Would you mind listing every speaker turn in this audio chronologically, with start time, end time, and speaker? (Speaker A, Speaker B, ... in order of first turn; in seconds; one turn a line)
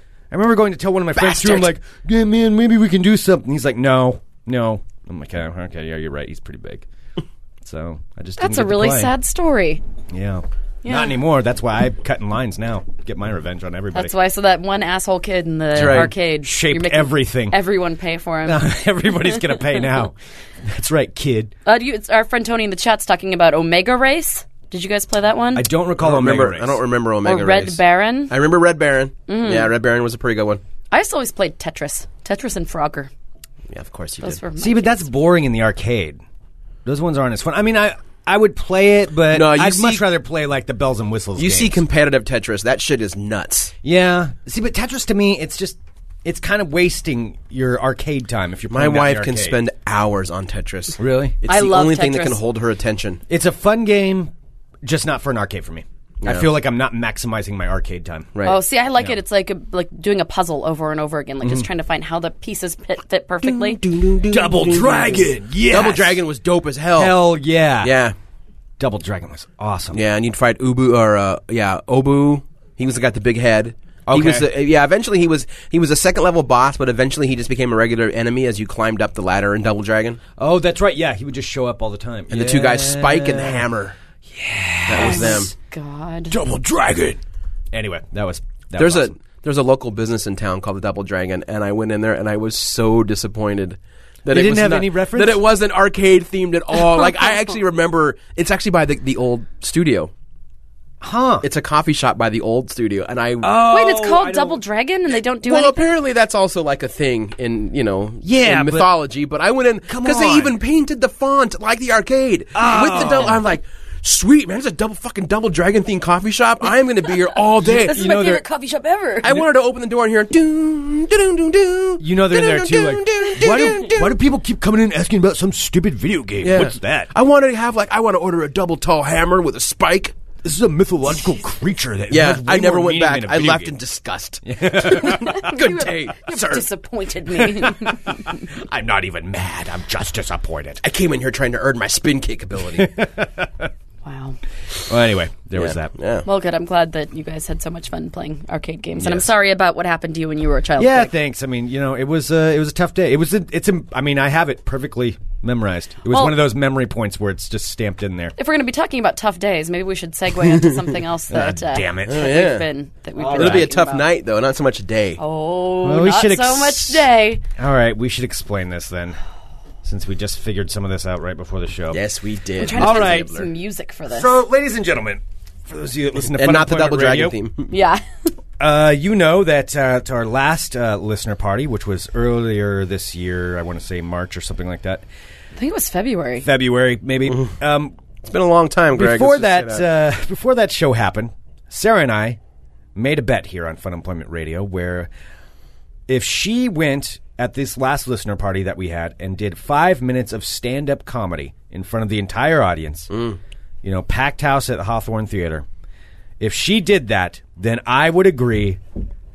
Speaker A: 0.3-6.8
Speaker B: 1.1-1.7
Speaker A: 7.6-9.1
Speaker C: 8.4-9.8
Speaker A: 10.1-14.1
Speaker C: 10.8-11.1
Speaker C: 13.9-18.7
Speaker B: 15.7-16.1
Speaker A: 15.8-17.6
Speaker A: 18.4-21.5
Speaker C: 21.6-25.6
Speaker A: 25.5-26.8
Speaker B: 26.0-30.6
Speaker C: 27.2-28.3
Speaker C: 29.3-29.7
Speaker C: 30.9-33.1
Speaker B: 33.7-34.4
Speaker C: 34.2-35.0
Speaker A: 34.6-36.2
Speaker A: 36.8-41.8
Speaker B: 39.3-40.1
Speaker B: 41.4-43.7
Speaker A: 43.8-49.6
Speaker B: 48.7-53.2
Speaker A: 51.0-51.4
Speaker C: 51.5-52.4
Speaker A: 53.3-54.3
Speaker A: 54.8-58.3
Speaker B: 56.2-56.5
Speaker C: 58.4-63.8
Speaker A: 61.4-61.7
Speaker B: 63.4-67.2
Speaker A: 64.3-66.2
Speaker A: 67.0-67.9
Speaker B: 67.8-68.1
Speaker A: 68.8-70.0
Speaker B: 69.9-80.2
Speaker A: 74.1-74.5
Speaker A: 80.4-83.6
Speaker B: 82.3-83.9
Speaker A: 84.3-85.5
Speaker B: 84.9-85.5
Speaker C: 85.0-86.3
Speaker A: 86.3-87.2
Speaker A: 87.7-89.1
Speaker B: 88.8-100.1
Speaker A: 94.3-95.4
Speaker A: 101.0-101.4
Speaker B: 101.4-103.5
Speaker A: 103.4-104.6
Speaker C: 103.6-105.9
Speaker B: 105.4-118.0
Speaker A: 108.2-108.9
Speaker A: 109.9-110.5
Speaker A: 112.5-113.4
Speaker A: 117.6-118.4
Speaker C: 117.7-119.3
Speaker B: 119.2-124.2
Speaker A: 122.0-127.1
Speaker B: 126.4-130.2
Speaker A: 130.4-133.7
Speaker B: 132.1-136.6
Speaker A: 134.4-135.6
Speaker C: 135.0-138.4
Speaker A: 137.5-140.8
Speaker B: 140.8-142.9
Speaker A: 142.7-143.7
Speaker C: 144.0-144.4
Speaker A: 144.9-145.9
Speaker B: 145.6-146.2
Speaker C: 146.2-151.1
Speaker B: 149.0-149.2
Speaker A: 150.8-158.3
Speaker C: 156.1-156.4
Speaker C: 158.4-164.1
Speaker A: 161.3-162.3
Speaker B: 162.1-162.6
Speaker A: 163.2-163.7
Speaker B: 163.3-165.2
Speaker C: 165.2-167.4
Speaker A: 165.8-169.2
Speaker A: 169.8-172.0
Speaker B: 171.9-173.5
Speaker C: 172.6-174.3
Speaker A: 172.7-173.3
Speaker A: 174.1-177.3
Speaker B: 176.3-177.7
Speaker C: 177.7-178.0
Speaker A: 178.6-185.0
Speaker C: 185.6-186.4
Speaker A: 186.4-187.9
Speaker B: 188.2-189.8
Speaker A: 188.9-192.4
Speaker A: 192.9-195.1
Speaker A: 196.1-203.1
Speaker B: 203.1-203.4
Speaker A: 203.8-205.6
Speaker A: 206.4-208.8